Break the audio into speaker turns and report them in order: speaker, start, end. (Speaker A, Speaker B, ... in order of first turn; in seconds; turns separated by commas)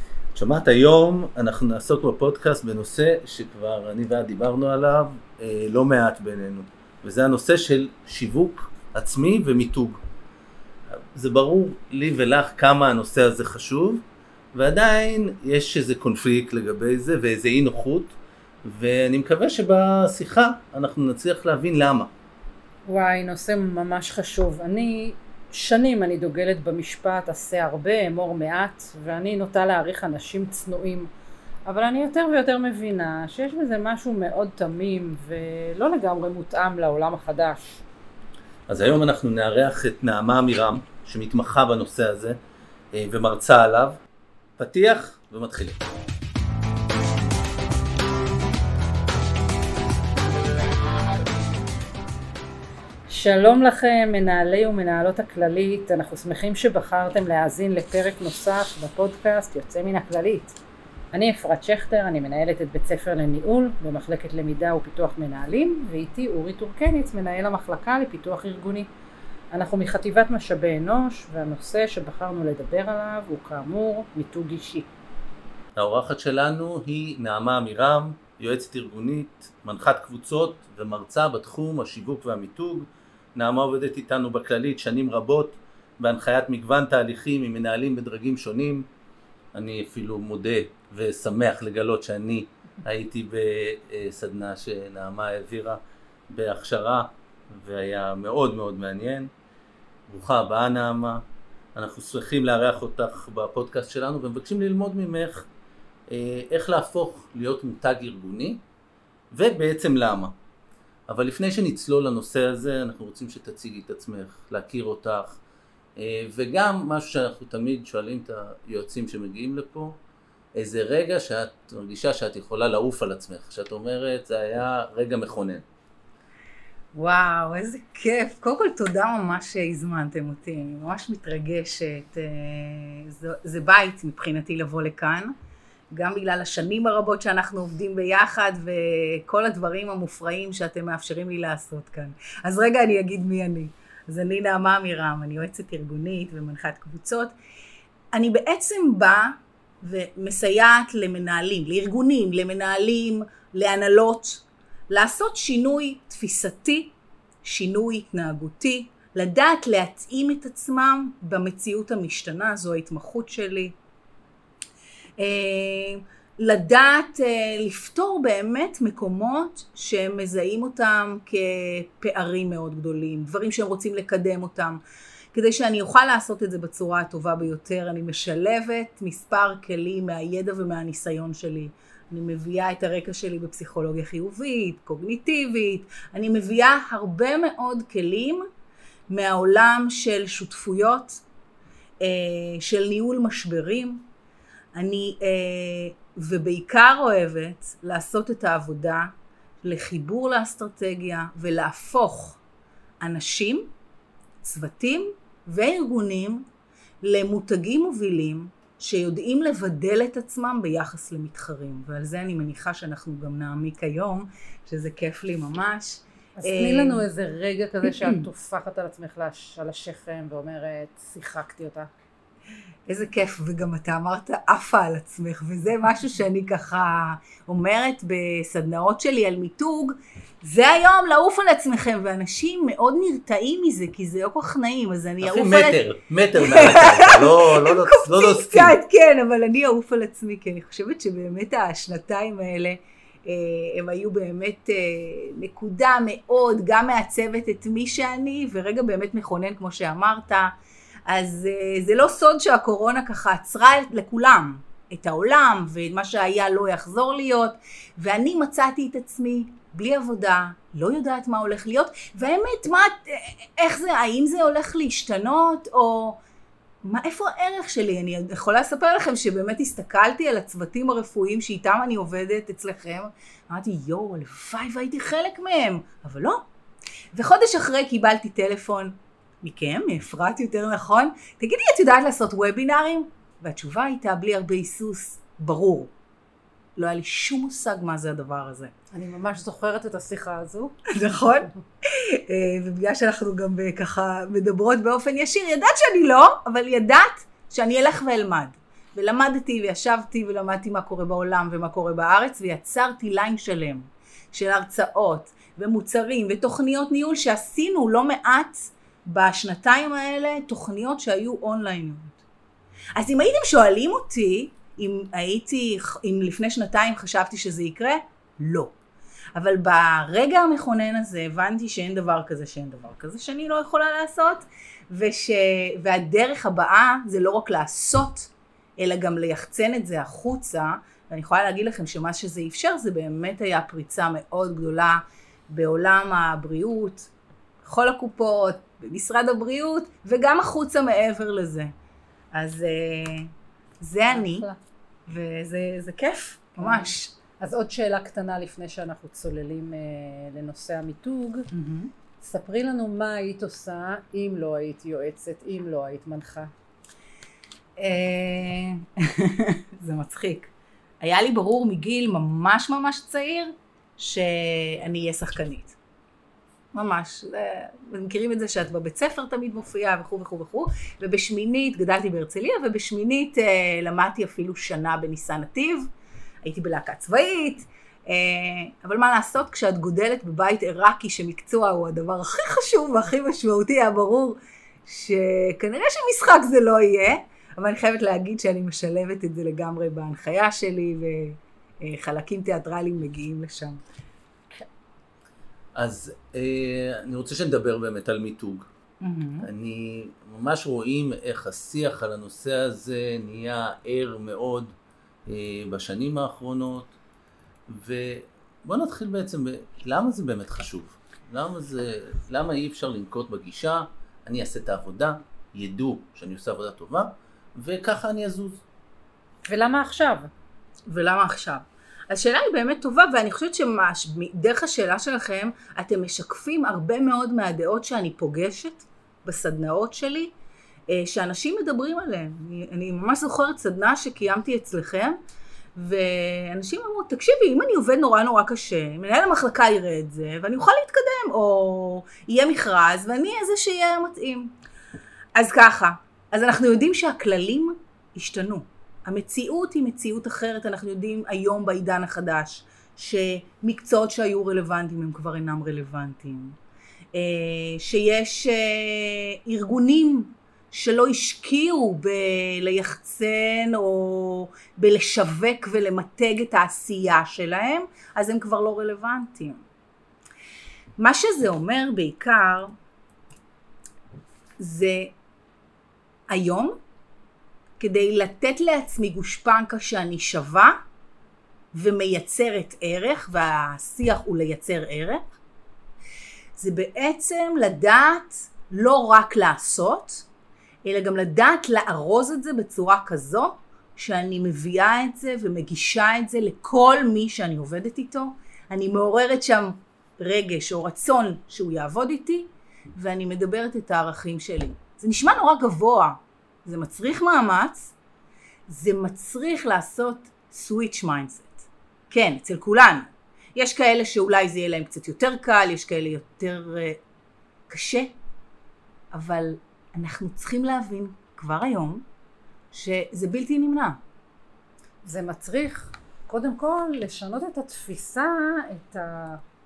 Speaker A: 0.3-10.0, Speaker A: 11.1-14.0, Speaker A: 14.5-22.1, Speaker B: 22.9-31.1, Speaker B: 31.6-37.8, Speaker A: 38.7-42.4, Speaker A: 42.9-44.0, Speaker A: 44.6-45.8, Speaker B: 53.1-60.5, Speaker B: 61.1-68.9, Speaker B: 69.5-74.9, Speaker A: 75.8-88.9, Speaker A: 89.5-99.3, Speaker A: 100.1-101.2, Speaker A: 101.7-105.5, Speaker A: 106.1-108.6, Speaker A: 109.3-110.3, Speaker A: 111.1-115.4, Speaker A: 116.0-120.0, Speaker A: 120.5-125.6, Speaker C: 126.9-135.3, Speaker C: 135.9-147.3, Speaker C: 148.1-163.7, Speaker C: 165.2-174.8, Speaker C: 175.3-188.4, Speaker C: 189.1-191.2, Speaker C: 192.0-194.0, Speaker C: 194.7-199.1, Speaker C: 199.6-202.4, Speaker C: 203.0-203.7, Speaker C: 204.4-206.5, Speaker C: 207.0-217.1, Speaker B: 216.4-221.9, Speaker C: 217.8-218.2, Speaker C: 222.9-235.8, Speaker A: 235.2-238.8, Speaker C: 236.3-250.5, Speaker C: 251.1-266.2, Speaker C: 266.8-276.4, Speaker C: 277.1-285.9, Speaker C: 286.8-288.7, Speaker B: 288.9-290.8, Speaker C: 290.9-312.2, Speaker C: 312.9-318.7, Speaker C: 319.3-337.1, Speaker C: 337.6-341.7, Speaker C: 342.3-344.5, Speaker B: 344.1-344.6, Speaker C: 345.1-347.1, Speaker B: 346.6-351.5, Speaker C: 351.5-351.9, Speaker B: 352.2-356.5, Speaker C: 357.8-365.8, Speaker C: 366.7-375.9, Speaker C: 376.4-393.8, Speaker A: 395.7-398.7, Speaker C: 399.0-399.5, Speaker A: 399.4-404.7, Speaker A: 405.3-406.9, Speaker A: 407.7-418.6, Speaker B: 419.4-420.3, Speaker C: 420.9-430.3, Speaker C: 430.9-435.2, Speaker C: 435.7-444.5, Speaker C: 445.3-456.6, Speaker C: 457.1-469.6, Speaker C: 471.0-472.7, Speaker C: 474.6-475.1, Speaker C: 476.3-476.8, Speaker C: 477.8-480.8, Speaker C: 481.7-485.3, Speaker C: 486.6-490.2, Speaker C: 490.8-507.9, Speaker C: 508.7-517.0, Speaker C: 517.7-518.1, Speaker C: 519.1-522.0, Speaker C: 522.7-524.0, Speaker B: 525.0-529.4